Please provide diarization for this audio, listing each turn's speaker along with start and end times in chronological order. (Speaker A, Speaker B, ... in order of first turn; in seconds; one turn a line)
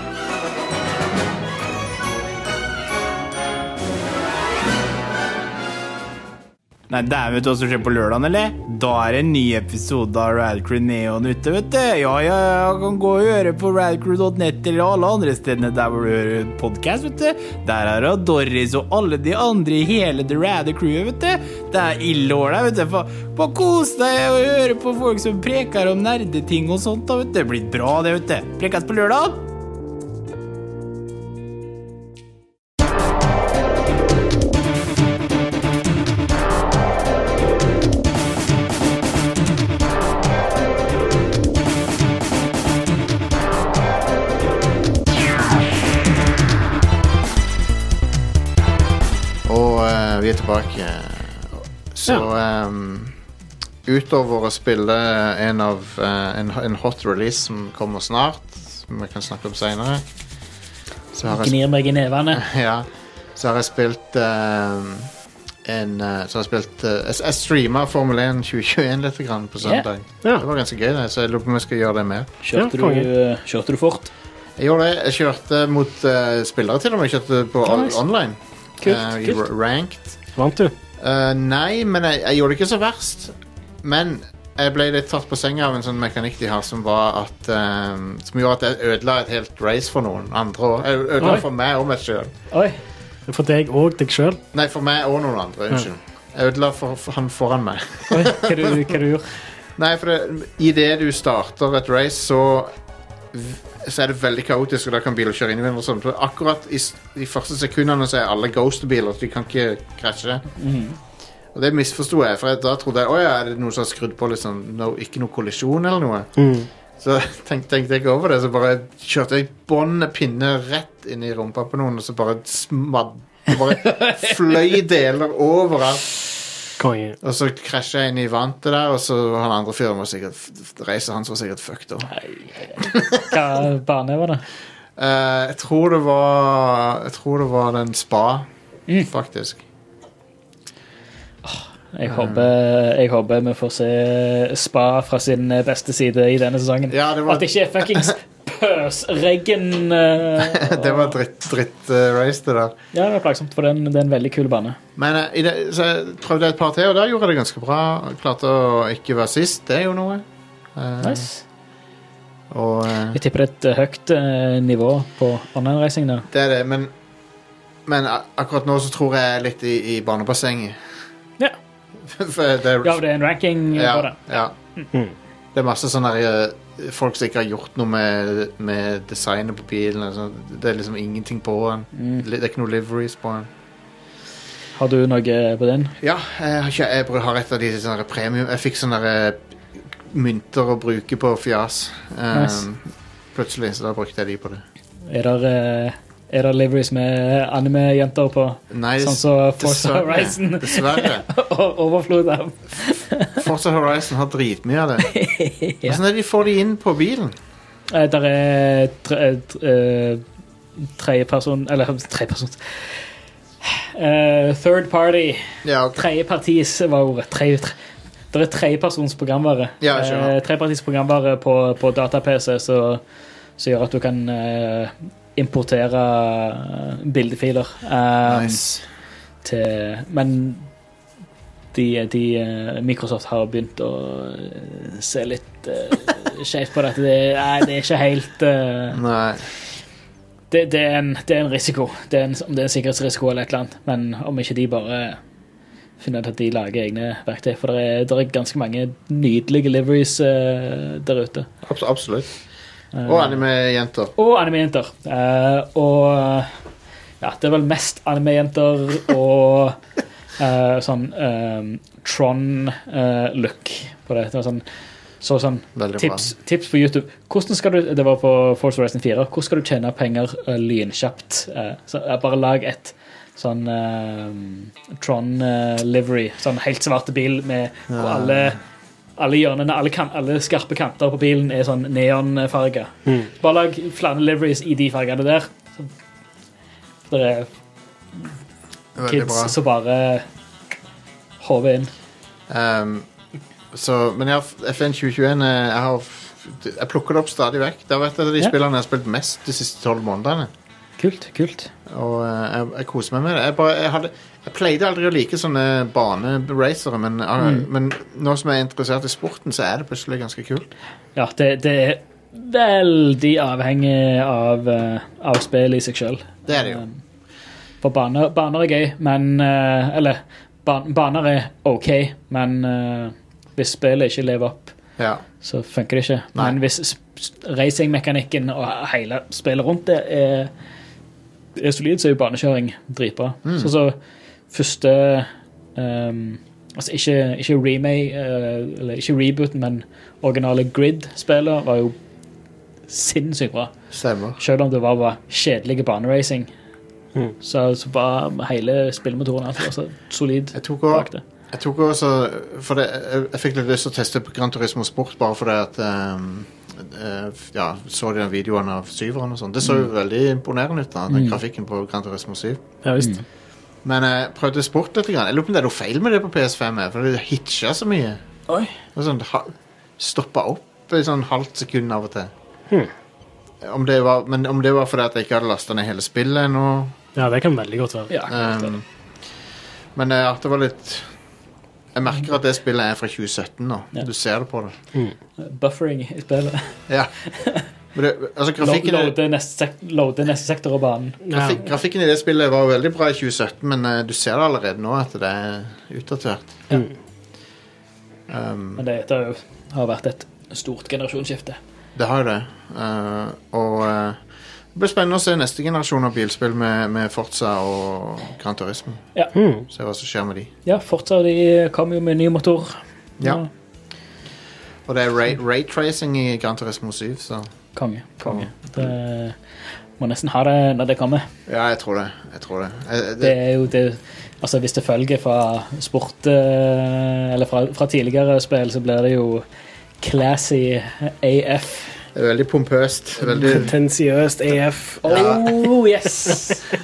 Speaker A: 6.9-29.4
Speaker B: 49.4-53.1
Speaker B: 53.8-60.0
Speaker B: 61.1-61.5
Speaker C: 61.3-62.4
Speaker B: 62.3-65.1
Speaker B: 65.6-72.3
Speaker C: 72.4-74.1
Speaker D: 72.5-73.1
Speaker B: 74.6-80.2
Speaker C: 77.7-78.0
Speaker C: 78.8-79.4
Speaker D: 80.3-80.7
Speaker B: 81.0-92.3
Speaker C: 92.5-92.8
Speaker D: 93.3-94.4
Speaker B: 94.5-98.9
Speaker C: 98.1-99.3
Speaker B: 99.8-102.7
Speaker B: 103.3-110.4
Speaker C: 110.6-111.0
Speaker B: 111.5-116.3
Speaker D: 116.4-116.7
Speaker B: 117.0-126.2
Speaker C: 123.8-124.3
Speaker D: 126.8-127.2
Speaker B: 127.2-132.1
Speaker C: 132.1-134.4
Speaker B: 135.0-138.5
Speaker B: 139.0-139.6
Speaker C: 141.4-151.2
Speaker B: 142.1-142.5
Speaker B: 146.9-148.1
Speaker B: 150.4-152.7
Speaker C: 152.9-154.8
Speaker B: 155.0-161.3
Speaker C: 161.0-161.4
Speaker B: 162.5-163.2
Speaker C: 163.1-166.3
Speaker B: 166.3-166.9
Speaker B: 167.8-170.8
Speaker B: 172.0-173.0
Speaker C: 172.8-174.2
Speaker B: 173.7-174.5
Speaker B: 175.5-183.5
Speaker C: 181.9-182.2
Speaker C: 184.8-185.9
Speaker B: 186.0-194.6
Speaker C: 192.3-192.6
Speaker C: 195.1-203.4
Speaker B: 198.7-201.2
Speaker B: 203.4-205.1
Speaker C: 205.0-206.0
Speaker B: 205.8-207.3
Speaker C: 207.9-210.2
Speaker C: 210.8-213.1
Speaker C: 213.6-217.8
Speaker B: 215.6-216.0
Speaker C: 218.3-223.0
Speaker B: 219.8-220.3
Speaker C: 223.6-228.8
Speaker B: 228.2-228.8
Speaker C: 229.4-230.7
Speaker C: 231.7-239.0
Speaker B: 238.9-239.4
Speaker C: 240.5-245.2
Speaker C: 246.0-251.5
Speaker B: 251.6-252.3
Speaker C: 252.9-253.4
Speaker B: 253.0-254.1
Speaker C: 254.2-256.5
Speaker C: 257.2-259.8
Speaker C: 260.4-264.6
Speaker C: 265.2-278.6
Speaker B: 265.8-266.3
Speaker B: 277.9-278.6
Speaker C: 279.2-285.9
Speaker C: 287.1-287.5
Speaker B: 288.9-289.5
Speaker C: 289.0-290.2
Speaker C: 291.4-291.9
Speaker B: 292.5-293.1
Speaker B: 293.7-300.5
Speaker C: 301.0-301.7
Speaker B: 301.9-310.7
Speaker C: 307.4-307.6
Speaker C: 311.1-317.0
Speaker B: 316.5-316.8
Speaker C: 317.8-324.7
Speaker B: 325.0-325.2
Speaker C: 325.4-330.5
Speaker C: 331.6-333.9
Speaker B: 333.4-333.7
Speaker C: 334.5-341.9
Speaker C: 342.9-343.7
Speaker B: 343.9-344.4
Speaker C: 344.4-346.5
Speaker C: 347.4-351.2
Speaker B: 350.5-362.6
Speaker C: 361.1-361.4
Speaker D: 362.8-363.1
Speaker B: 363.8-368.2
Speaker C: 368.5-368.7
Speaker B: 368.9-372.3
Speaker B: 373.6-377.0
Speaker D: 377.1-378.1
Speaker C: 378.1-378.7
Speaker B: 378.3-378.8
Speaker B: 379.9-381.1
Speaker B: 381.9-384.7
Speaker C: 385.4-386.8
Speaker C: 387.3-387.7
Speaker B: 387.9-389.1
Speaker C: 388.6-391.2
Speaker D: 391.2-391.6
Speaker B: 391.3-396.6
Speaker B: 398.3-398.8
Speaker C: 398.8-401.6
Speaker B: 401.9-404.2
Speaker B: 404.7-409.1
Speaker D: 409.3-409.6
Speaker B: 409.7-410.5
Speaker C: 410.6-413.5
Speaker B: 414.9-417.5
Speaker C: 417.8-419.4
Speaker B: 418.2-418.9
Speaker C: 420.0-421.3
Speaker B: 421.5-423.4
Speaker C: 423.2-429.4
Speaker C: 430.0-432.0
Speaker B: 432.1-433.7
Speaker C: 433.3-433.6
Speaker D: 433.4-435.5
Speaker C: 435.0-436.6
Speaker B: 435.1-435.4